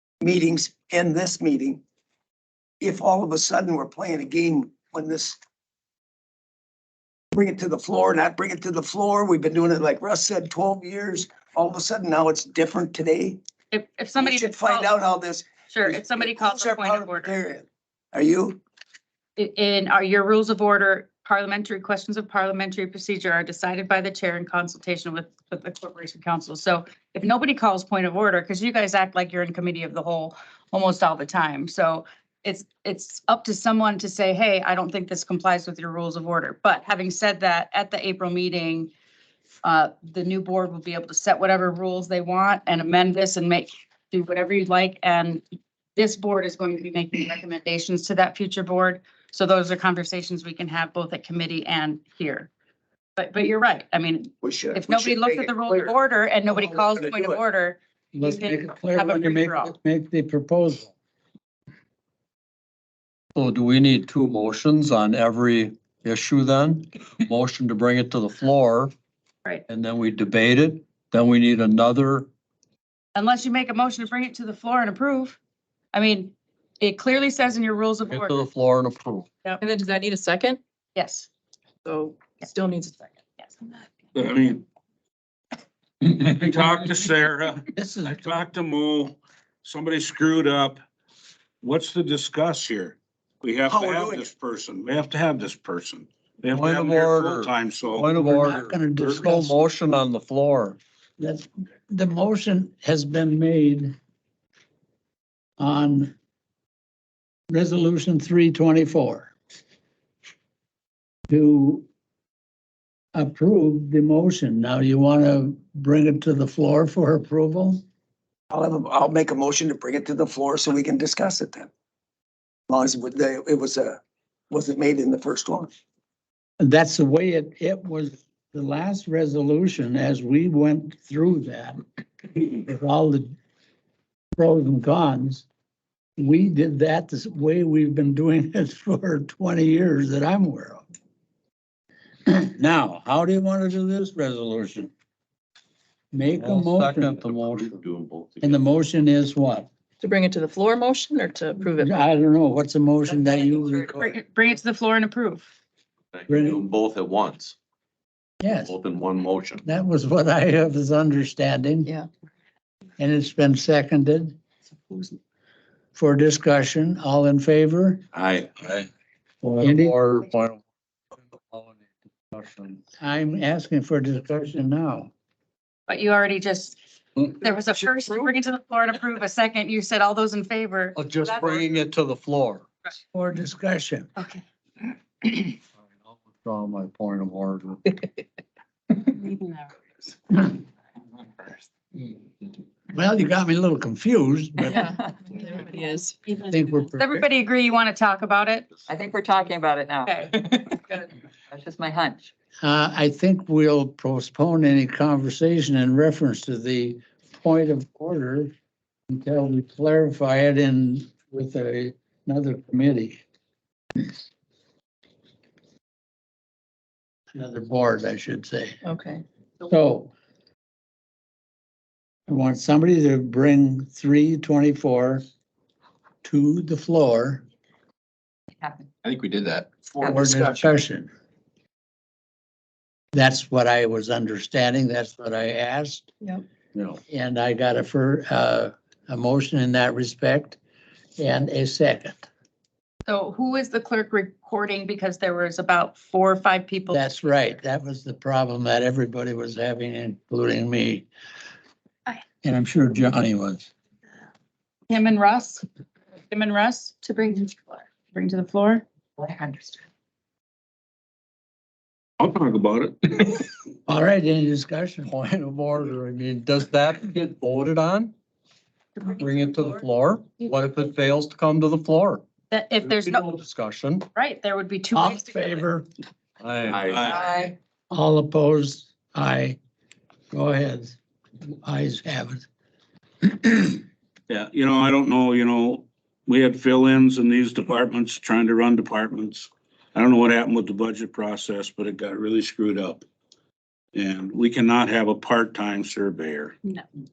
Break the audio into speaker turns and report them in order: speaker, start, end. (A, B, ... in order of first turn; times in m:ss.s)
0:00.2-0:01.8 A
0:02.8-0:05.4 A
0:07.3-0:13.4 A
0:13.7-0:14.9 B
0:14.2-0:18.6 A
0:15.7-0:17.4 B
0:19.4-0:38.9 B
0:39.6-0:52.5 B
0:53.2-0:59.8 B
0:54.4-0:56.0 A
0:56.5-0:57.4 A
0:58.1-1:00.9 C
1:03.4-1:08.9 D
1:09.7-1:12.3 D
1:13.2-1:15.4 B
1:15.9-1:18.4 B
1:18.0-1:19.3 D
1:19.6-1:20.6 E
1:21.0-1:21.3 B
1:21.8-1:23.1 E
1:24.1-1:24.6 F
1:26.0-1:30.8 F
1:26.4-1:27.4 B
1:27.8-1:28.2 C
1:31.6-1:38.0 F
1:33.6-1:34.2 B
1:33.7-1:34.3 A
1:36.5-1:40.8 D
1:38.1-1:39.6 C
1:41.2-1:44.0 C
1:45.6-1:46.1 C
1:47.5-1:49.3 C
1:51.3-1:51.9 C
1:53.2-1:57.8 C
1:58.5-2:01.7 A
2:02.7-2:05.7 A
2:06.6-2:11.8 C
2:12.4-2:13.3 C
2:14.4-2:15.5 C
2:16.2-2:20.8 C
2:22.3-2:24.9 C
2:26.1-2:27.2 C
2:26.4-2:27.7 D
2:27.1-2:28.6 G
2:28.4-2:29.7 C
2:30.0-2:32.0 E
2:31.8-2:34.2 C
2:33.4-2:33.7 H
2:34.0-2:35.5 B
2:36.1-2:37.6 G
2:36.3-2:36.6 C
2:38.4-2:38.8 C
2:38.5-2:39.6 G
2:39.6-2:41.9 C
2:43.0-2:44.4 C
2:46.0-2:48.0 C
2:48.1-2:48.9 G
2:49.4-2:50.6 D
2:49.6-2:50.0 C
2:51.3-2:52.8 D
2:53.0-2:55.1 C
2:55.9-2:56.8 B
2:57.3-3:01.6 B
3:01.0-3:02.7 D
3:03.1-3:04.1 C
3:04.2-3:04.4 B
3:06.0-3:07.8 D
3:09.1-3:09.7 B
3:12.9-3:14.8 C
3:14.7-3:16.2 E
3:16.5-3:17.3 C
3:17.0-3:18.7 B
3:18.8-3:22.3 H
3:22.6-3:28.5 C
3:29.1-3:33.2 C
3:37.4-3:38.8 C
3:38.8-3:39.2 E
3:39.6-3:40.1 C
3:42.3-3:45.2 C
3:46.2-3:47.4 C
3:48.6-3:48.9 H
3:49.0-3:50.6 G
3:50.0-3:51.1 C
3:53.1-3:56.1 C
3:57.1-4:00.6 C
4:01.2-4:02.3 C
4:03.1-4:07.0 B
4:06.9-4:11.1 C
4:12.4-4:13.7 C
4:14.9-4:15.6 B
4:16.3-4:18.8 B
4:19.2-4:19.8 H
4:22.2-4:23.5 F
4:23.9-4:25.1 C
4:25.1-4:28.1 D
4:29.0-4:32.2 D
4:32.5-4:33.2 B
4:32.8-4:34.1 D
4:34.2-4:35.6 B
4:34.9-4:35.9 C
4:36.4-4:36.9 D
4:36.7-4:37.5 G
4:37.0-4:37.6 H
4:37.9-4:39.6 C
4:40.3-4:41.0 C
4:41.5-4:42.4 C
4:43.2-4:43.8 C
4:44.3-4:53.0 F
4:53.9-4:56.6 F